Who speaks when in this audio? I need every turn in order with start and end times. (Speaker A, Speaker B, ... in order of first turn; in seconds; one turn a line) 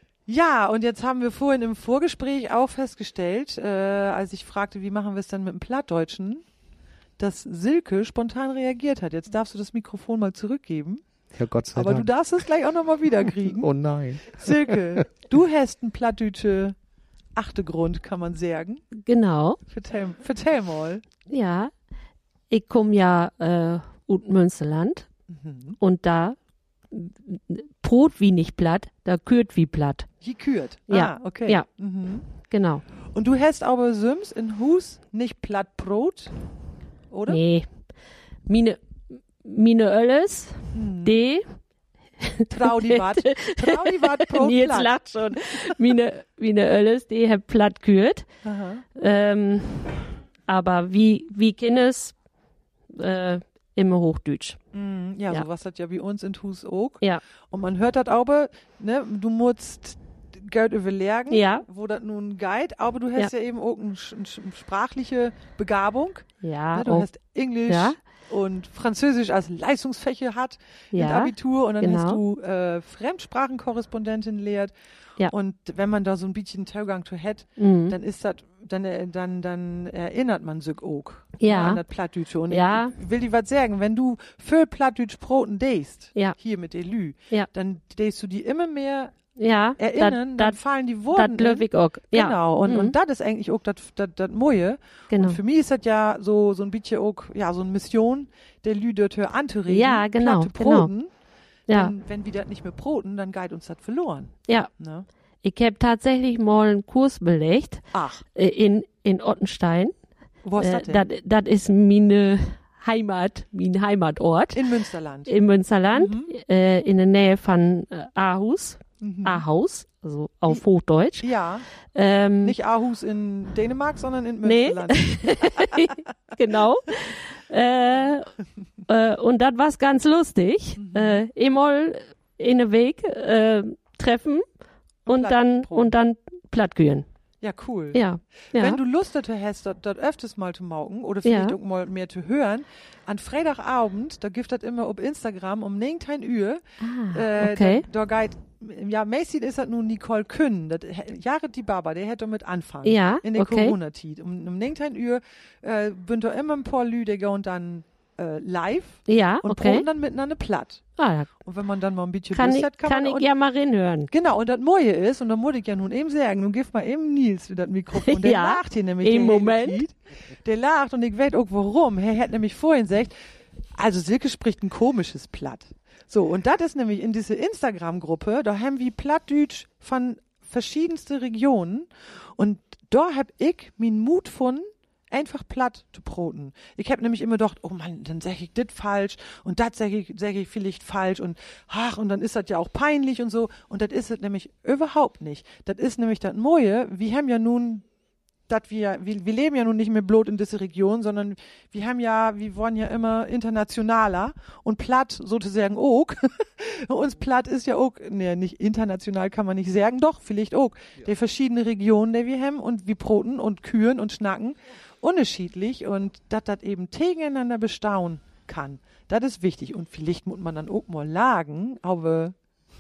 Speaker A: 0.3-6.4
Speaker A: 7.2-11.1
Speaker B: 11.3-12.1
Speaker A: 11.7-13.7
Speaker B: 13.5-15.0
Speaker A: 14.3-16.8
Speaker A: 17.4-18.9
Speaker C: 19.0-19.6
Speaker A: 19.7-21.0
Speaker C: 21.3-21.7
Speaker C: 22.5-25.1
Speaker A: 25.3-25.8
Speaker C: 25.8-26.4
Speaker C: 26.9-30.1
Speaker A: 30.2-32.3
Speaker C: 30.9-31.7
Speaker C: 32.3-32.9
Speaker A: 33.1-36.4
Speaker A: 37.1-37.4
Speaker C: 37.3-37.7
Speaker C: 38.5-38.8
Speaker C: 39.4-41.6
Speaker A: 40.7-41.2
Speaker C: 42.2-48.3
Speaker A: 42.5-44.9
Speaker A: 48.4-48.9
Speaker C: 49.0-52.1
Speaker C: 52.9-54.6
Speaker A: 54.7-74.7
Speaker C: 61.3-61.6
Speaker C: 66.4-67.1
Speaker C: 67.7-68.0
Speaker C: 70.9-72.2
Speaker A: 75.3-89.2
Speaker C: 77.6-78.0
Speaker C: 81.4-81.8
Speaker C: 82.5-82.9
Speaker C: 89.4-90.6
Speaker A: 89.8-101.1
Speaker C: 91.1-92.9
Speaker C: 95.1-95.4
Speaker C: 99.7-100.9
Speaker C: 101.7-101.9
Speaker A: 101.7-105.1
Speaker C: 105.4-110.0
Speaker A: 107.9-108.2
Speaker A: 110.4-111.1
Speaker C: 110.6-114.7
Speaker A: 114.5-115.3
Speaker C: 115.3-121.3
Speaker A: 115.9-116.3
Speaker A: 119.0-119.4
Speaker A: 121.2-121.7
Speaker C: 121.9-122.6
Speaker A: 122.4-125.9
Speaker C: 124.4-128.3
Speaker C: 128.9-134.4
Speaker A: 130.8-131.2
Speaker A: 135.1-135.9
Speaker C: 135.1-137.1
Speaker A: 137.4-138.0
Speaker C: 137.9-138.8
Speaker A: 138.5-160.8
Speaker C: 141.2-141.6
Speaker C: 146.8-147.8
Speaker C: 152.8-153.8
Speaker C: 159.1-159.9
Speaker C: 161.0-161.3
Speaker A: 161.4-163.3
Speaker C: 162.3-164.1
Speaker A: 164.1-173.2
Speaker C: 168.0-169.8
Speaker A: 173.8-197.9
Speaker A: 198.5-222.4